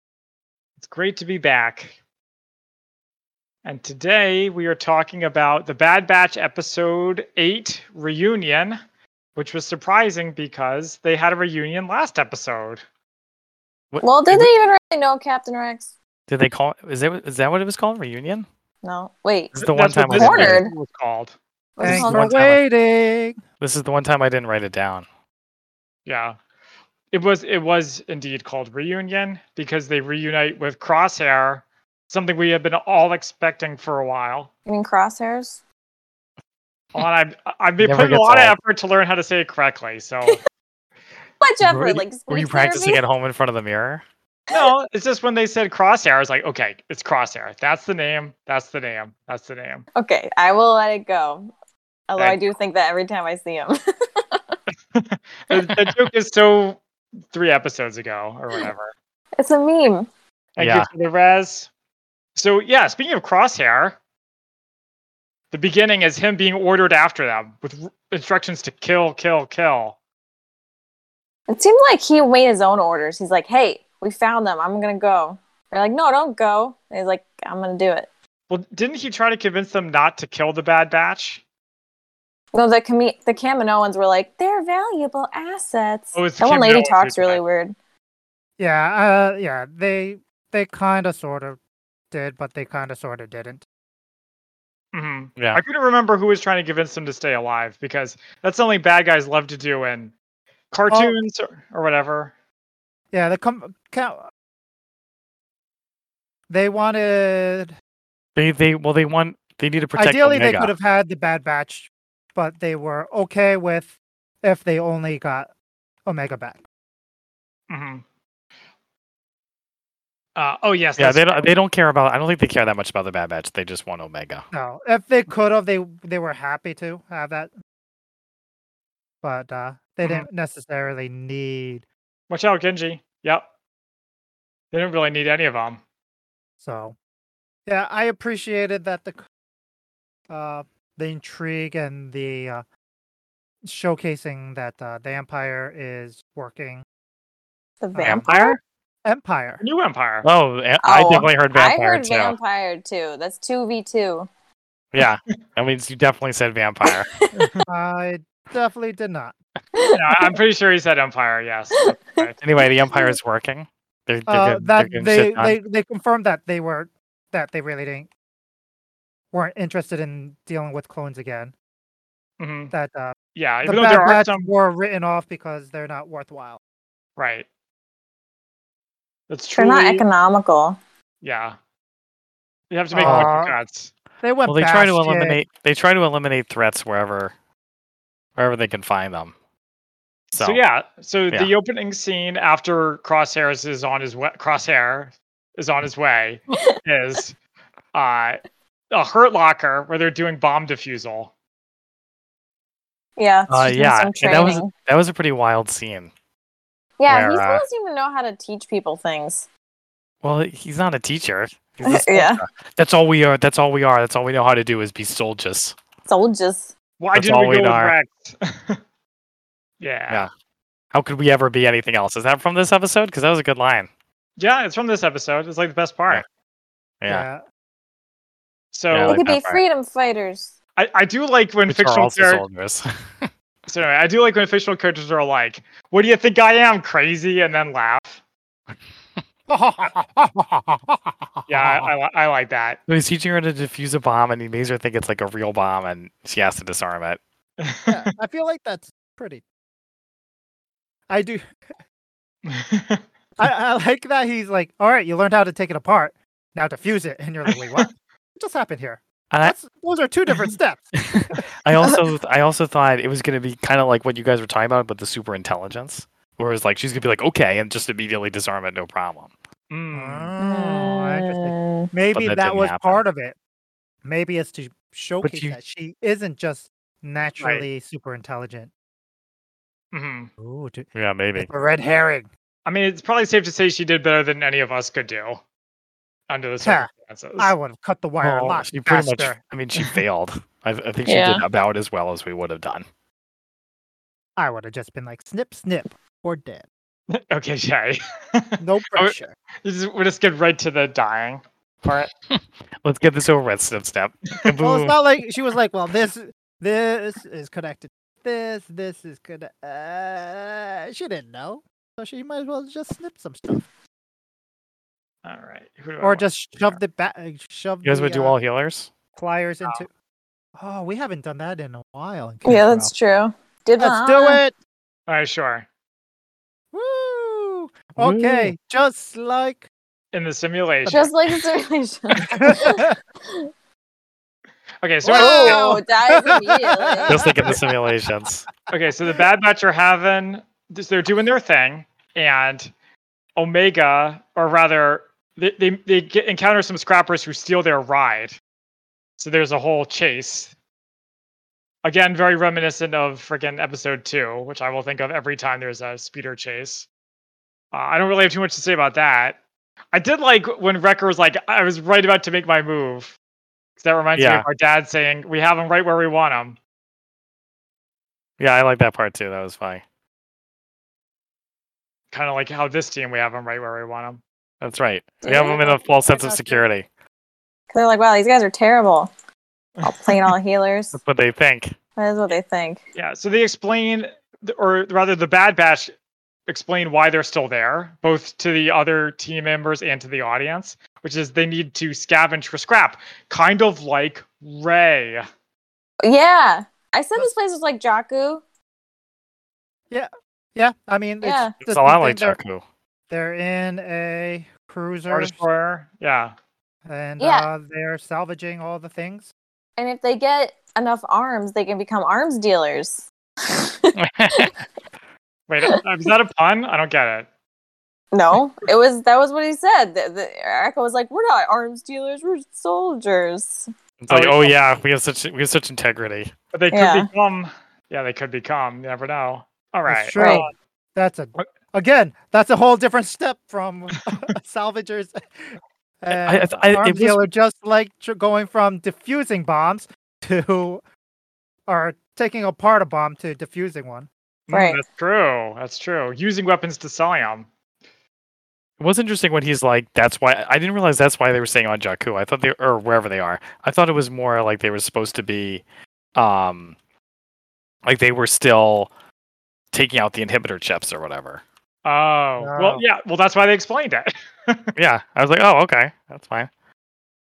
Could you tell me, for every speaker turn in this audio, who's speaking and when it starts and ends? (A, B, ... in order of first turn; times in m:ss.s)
0:00.8-0:01.9 A
0:03.6-0:08.8 A
0:09.4-0:12.8 A
0:13.9-0:14.5 B
0:14.0-0:15.9 C
0:16.3-0:18.5 B
0:18.8-0:20.7 C
0:19.5-0:20.6 B
0:19.7-0:21.4 A
0:21.8-0:22.3 C
0:21.8-0:23.4 D
0:21.8-0:22.6 B
0:23.6-0:25.0 B
0:26.0-0:26.4 A
0:27.1-0:34.5 A
0:34.6-0:35.6 C
0:37.0-0:40.4 A
0:37.8-0:38.6 B
0:41.4-0:43.0 C
0:41.6-0:44.0 B
0:44.5-0:49.8 A
0:49.9-0:51.5 C
0:52.1-0:54.6 C
0:54.9-0:56.8 A
0:57.3-0:58.9 A
0:59.4-1:00.1 C
1:00.6-1:01.7 A
1:00.6-1:00.9 B
1:02.4-1:04.0 A
1:05.5-1:10.0 A
1:11.5-1:18.1 C
1:18.5-1:21.4 A
1:22.5-1:27.7 C
1:26.1-1:27.4 A
1:28.6-1:31.6 D
1:32.1-1:33.6 D
1:34.9-1:40.1 A
1:40.7-1:42.3 A
1:40.9-1:41.2 D
1:43.1-1:44.3 D
1:46.5-1:47.7 D
1:48.4-1:50.7 B
1:50.0-1:55.5 D
1:56.0-1:56.6 D
1:57.7-1:58.0 A
2:00.4-2:01.5 A
2:01.0-2:04.4 B
2:04.5-2:07.5 D
2:09.2-2:11.8 D
2:12.3-2:13.4 A
2:14.7-2:15.8 A
2:16.6-2:17.0 D
2:17.6-2:19.2 D
2:20.3-2:22.6 D
2:23.6-2:26.8 D
2:27.8-2:28.6 C
2:27.9-2:28.2 D
2:28.0-2:28.6 B
2:29.0-2:29.6 D
2:29.6-2:30.3 A
2:30.2-2:32.4 B
2:30.8-2:34.3 C
2:34.9-2:37.1 B
2:36.9-2:37.3 C
2:37.3-2:37.6 A
2:37.7-2:39.4 D
2:39.7-2:40.4 C
2:39.9-2:42.4 A
2:41.7-2:43.2 C
2:42.4-2:45.6 B
2:44.3-2:48.1 D
2:49.3-2:51.5 D
2:52.4-2:52.7 A
2:52.7-2:53.1 D
2:53.3-2:54.5 A
2:53.6-2:56.6 D
2:57.2-2:57.5 A
2:59.3-3:00.0 A
2:59.5-3:00.8 C
3:01.2-3:01.6 A
3:02.7-3:03.9 A
3:02.9-3:03.6 D
3:03.0-3:03.3 B
3:04.2-3:05.4 D
3:04.5-3:07.3 B
3:08.4-3:09.3 B
3:10.3-3:17.4 A
3:10.3-3:10.6 B
3:16.5-3:16.8 C
3:17.9-3:21.3 A
3:23.2-3:24.7 C
3:23.5-3:26.1 B
3:27.0-3:29.5 C
3:27.1-3:27.6 B
3:30.2-3:35.7 B
3:31.8-3:32.4 C
3:36.0-3:36.7 C
3:37.0-3:38.8 A
3:37.1-3:37.9 B
3:39.8-3:40.2 A
3:40.9-3:43.9 B
3:44.4-3:46.2 A
3:47.0-3:47.3 B
3:47.1-3:47.4 D
3:48.7-3:49.2 A
3:48.9-3:49.6 B
3:49.1-3:50.5 C
3:50.8-3:52.4 A
3:51.7-3:53.3 B
3:53.6-3:58.2 A
3:59.5-4:01.4 D
4:01.5-4:02.8 A
4:02.9-4:07.2 B
4:07.6-4:08.1 A
4:07.9-4:09.4 D
4:11.1-4:11.4 D
4:12.5-4:13.0 A
4:13.4-4:21.4 D
4:17.5-4:17.8 A
4:21.0-4:29.3 B
4:29.7-4:30.3 A
4:29.9-4:33.4 D
4:30.4-4:31.9 C
4:32.1-4:33.0 B
4:34.0-4:38.7 D
4:35.2-4:35.6 B
4:37.4-4:37.6 A
4:39.9-4:40.3 A
4:40.4-4:40.8 D
4:40.9-4:41.5 B
4:41.4-4:42.3 D
4:42.6-4:45.4 A
4:46.3-4:47.5 A
4:46.6-4:49.4 D
4:48.2-4:52.8 B
4:51.0-4:51.4 C
4:54.4-4:56.7 D
4:57.1-5:02.1 A
4:58.6-4:59.3 D
5:02.3-5:05.0 B
5:04.6-5:13.7 D
5:15.2-5:16.2 A
5:16.0-5:18.4 D
5:17.8-5:18.9 B
5:19.2-5:19.9 D
5:20.6-5:22.9 D
5:22.4-5:24.4 C
5:23.8-5:24.5 D
5:25.1-5:25.6 A
5:26.7-5:29.7 D
5:28.0-5:28.5 B
5:30.1-5:31.1 A
5:30.8-5:31.1 D
5:30.9-5:33.5 C
5:32.2-5:32.9 D
5:34.8-5:35.7 A
5:35.0-5:37.9 D
5:35.1-5:37.2 C
5:37.1-5:38.4 B
5:38.7-5:42.7 A
5:43.4-5:48.4 A
5:49.2-5:50.5 A
5:51.8-5:56.9 A
5:57.7-5:59.4 A
5:59.9-6:03.2 A
6:03.8-6:06.6 A
6:04.2-6:04.4 B
6:08.4-6:09.8 B
6:12.1-6:14.2 A
6:14.6-6:16.8 B
6:15.2-6:16.1 C
6:17.7-6:19.1 C
6:19.8-6:20.3 A
6:19.8-6:21.0 C
6:20.9-6:21.7 B
6:22.0-6:22.8 C
6:23.0-6:25.9 A
6:26.5-6:35.2 A
6:36.0-6:38.4 C
6:39.9-6:42.4 D
6:41.2-6:41.5 C
6:41.6-6:42.6 B
6:43.1-6:45.4 D
6:45.1-6:46.3 A
6:46.9-6:49.3 D
6:47.2-6:47.5 C
6:49.8-6:54.5 C
6:54.0-6:54.5 B
6:55.5-6:57.3 A
6:58.1-7:03.7 C
7:04.0-7:06.3 B
7:04.1-7:04.5 A
7:06.5-7:10.5 A
7:06.7-7:07.1 C
7:09.9-7:20.8 D
7:10.1-7:10.5 C
7:16.1-7:17.2 B
7:21.7-7:24.1 D
7:24.5-7:27.5 A
7:24.5-7:24.8 C
7:28.8-7:35.6 B
7:36.1-7:36.8 B
7:37.8-7:38.9 B
7:39.7-7:41.4 B
7:41.8-7:44.7 A
7:42.4-7:42.8 D
7:44.8-7:46.5 B